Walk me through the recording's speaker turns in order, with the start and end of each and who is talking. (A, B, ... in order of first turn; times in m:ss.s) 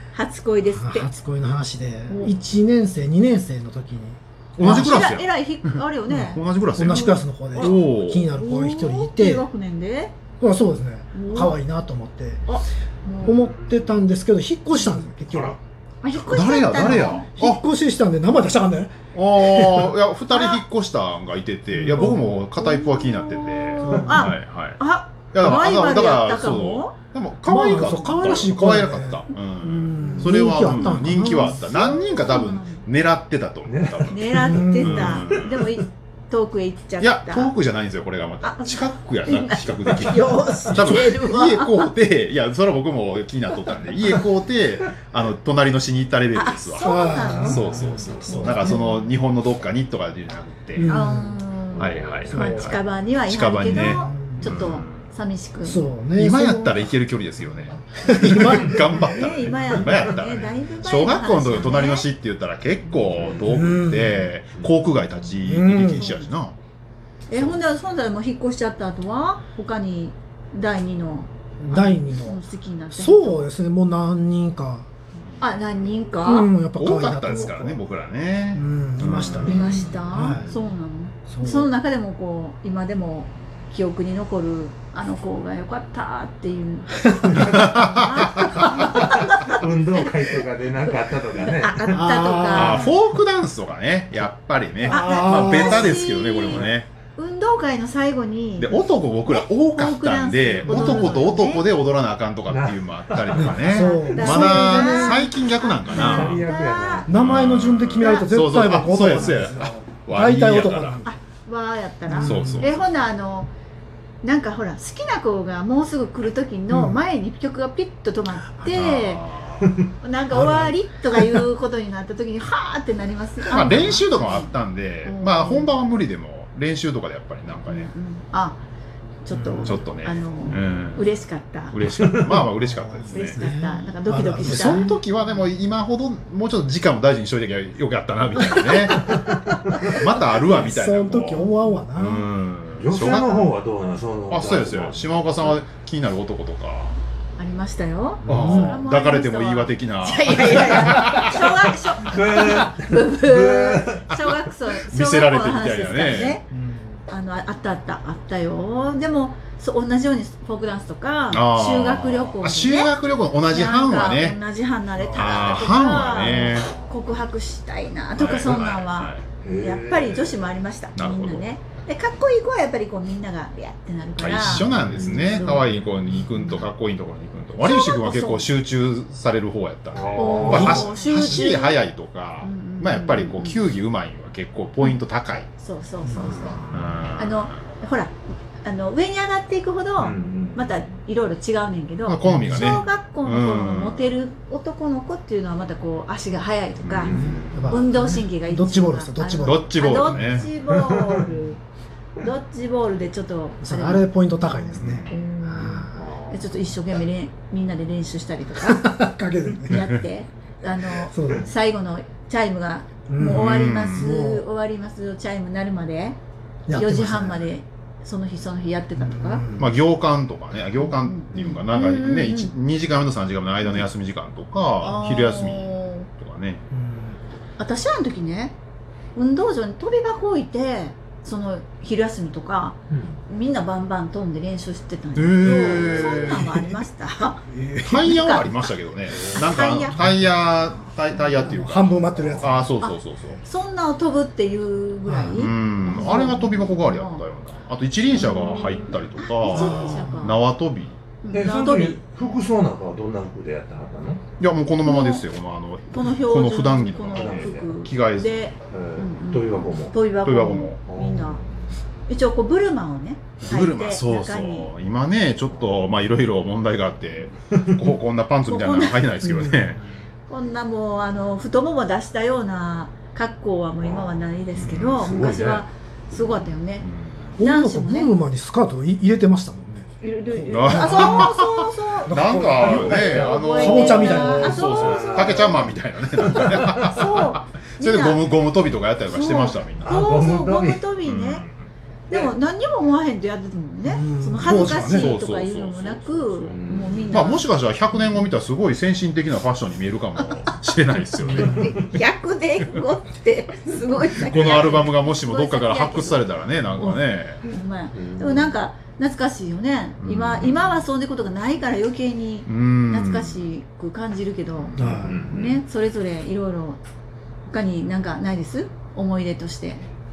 0:00.1-0:01.1 A
0:00.7-0:05.0 B
0:02.1-0:02.3 A
0:04.6-0:08.3 C
0:04.6-0:10.1 A
0:06.1-0:09.4 B
0:10.4-0:12.4 B
0:11.1-0:11.5 A
0:12.5-0:13.4 A
0:13.2-0:15.6 B
0:15.2-0:15.6 C
0:16.0-0:17.2 A
0:16.1-0:17.6 C
0:16.6-0:19.8 B
0:19.1-0:24.8 C
0:20.3-0:20.6 A
0:21.7-0:22.3 B
0:22.0-0:26.9 A
0:23.8-0:24.3 B
0:25.3-0:35.6 C
0:27.4-0:32.0 B
0:30.7-0:32.8 A
0:33.6-0:35.6 D
0:34.1-0:37.5 A
0:34.4-0:35.1 B
0:37.0-0:50.9 C
0:38.4-0:41.9 A
0:46.3-0:47.7 A
0:46.8-0:48.8 B
0:47.4-0:48.7 D
0:48.3-0:48.8 A
0:50.8-0:51.4 B
0:50.8-0:55.8 A
0:51.7-0:52.4 D
0:51.8-0:55.1 C
0:52.3-0:52.7 B
0:53.6-0:54.6 B
0:55.6-0:56.9 B
0:56.1-1:06.6 C
0:58.0-0:58.9 B
0:58.7-1:02.0 A
1:03.1-1:03.4 D
1:03.5-1:04.2 B
1:05.4-1:06.2 B
1:05.9-1:06.2 A
1:07.3-1:13.4 A
1:11.6-1:14.9 B
1:15.4-1:16.5 A
1:16.2-1:17.8 B
1:16.8-1:19.6 C
1:18.5-1:20.5 B
1:19.4-1:30.0 A
1:21.3-1:21.7 B
1:27.4-1:28.8 C
1:28.8-1:32.0 D
1:31.4-1:32.9 A
1:31.9-1:32.9 B
1:32.5-1:36.9 C
1:34.9-1:35.8 B
1:34.9-1:41.6 A
1:35.3-1:36.7 D
1:38.6-1:46.4 C
1:40.7-1:41.2 B
1:42.5-1:43.8 D
1:43.4-1:45.3 B
1:43.8-1:47.1 A
1:45.9-1:47.5 D
1:47.1-1:51.1 B
1:47.1-1:51.0 C
1:47.9-1:48.3 A
1:49.2-1:49.6 D
1:51.0-1:53.5 A
1:52.1-1:52.7 B
1:52.1-1:52.8 C
1:54.2-1:59.2 A
1:56.7-1:57.0 B
1:58.6-1:59.8 C
2:00.0-2:04.5 A
2:00.3-2:00.7 B
2:03.4-2:07.9 C
2:05.0-2:05.8 A
2:07.7-2:08.6 A
2:09.2-2:11.8 A
2:09.6-2:11.1 C
2:11.7-2:13.4 C
2:12.0-2:12.4 D
2:12.4-2:14.9 B
2:13.1-2:14.9 A
2:14.4-2:23.5 C
2:19.0-2:19.3 D
2:20.4-2:22.3 B
2:22.8-2:25.6 D
2:24.3-2:27.0 C
2:27.4-2:36.4 A
2:28.2-2:31.7 C
2:28.3-2:28.8 B
2:28.3-2:28.6 D
2:32.0-2:34.2 D
2:34.2-2:36.4 C
2:36.5-2:37.0 B
2:37.1-2:42.9 A
2:41.3-2:44.4 C
2:43.5-2:55.7 A
2:45.1-2:46.7 C
2:48.2-2:49.2 C
2:49.4-2:50.5 D
2:50.9-2:51.4 C
2:54.2-3:05.5 C
2:54.4-2:55.8 D
2:57.6-2:58.5 A
2:59.9-3:01.2 D
3:00.2-3:01.8 A
3:02.4-3:03.6 A
3:05.6-3:17.1 A
3:06.0-3:06.8 D
3:06.7-3:07.5 C
3:10.0-3:10.7 D
3:12.0-3:14.1 C
3:12.2-3:12.8 D
3:16.8-3:17.2 C
3:17.0-3:17.8 D
3:17.1-3:20.4 B
3:17.7-3:21.6 A
3:19.4-3:20.5 C
3:20.6-3:21.4 D
3:22.2-3:29.0 A
3:23.6-3:26.0 B
3:24.8-3:25.1 C
3:25.9-3:26.4 D
3:28.6-3:29.8 B
3:29.6-3:36.2 A
3:31.1-3:31.5 B
3:33.1-3:34.4 B
3:33.3-3:34.0 C
3:36.7-3:37.5 B
3:36.7-3:39.5 A
3:39.0-3:39.7 B
3:39.6-3:46.6 C
3:41.0-3:42.5 A
3:44.8-3:46.1 A
3:46.7-3:47.2 B
3:47.6-3:48.6 A
3:49.1-3:57.4 A
3:52.9-3:53.2 D
3:55.2-3:56.6 C
3:55.4-3:56.7 B
3:57.5-3:58.5 B
3:57.8-4:03.4 C
3:58.0-3:58.5 A
3:59.1-3:59.5 D
3:59.3-4:00.8 A
4:01.1-4:02.5 D
4:01.5-4:02.8 B
4:02.8-4:07.2 A
4:05.0-4:05.4 B
4:05.2-4:11.0 C
4:08.1-4:10.4 A
4:09.5-4:10.3 B
4:11.2-4:12.0 A
4:11.3-4:14.2 D
4:14.4-4:18.4 C
4:14.8-4:15.2 A
4:15.9-4:21.4 A
4:17.1-4:17.8 D
4:18.7-4:20.0 D
4:20.2-4:20.8 C
4:20.9-4:21.5 D
4:22.1-4:24.7 A
4:23.4-4:29.8 C
4:27.5-4:27.9 D
4:28.5-4:29.1 A
4:29.2-4:29.7 B
4:30.3-4:38.1 A
4:34.6-4:35.2 C
4:34.7-4:35.6 D
4:36.8-4:37.3 C
4:37.4-4:41.1 B
4:40.0-4:45.8 A
4:40.5-4:50.1 C
4:40.8-4:41.3 D
4:42.1-4:44.7 B
4:42.3-4:47.0 D
4:46.8-4:48.2 A
4:49.1-4:51.4 A
4:49.8-4:50.8 D
4:51.0-4:51.4 C
4:52.1-4:57.4 A
4:53.8-4:55.2 B
4:54.4-4:56.6 C
4:56.4-4:57.4 D
4:57.1-5:01.8 C
5:01.2-5:16.8 A
5:04.1-5:07.4 C
5:07.9-5:08.5 D
5:10.0-5:10.7 C
5:12.5-5:13.5 C
5:14.8-5:15.2 B
5:15.0-5:15.6 D
5:17.5-5:19.9 A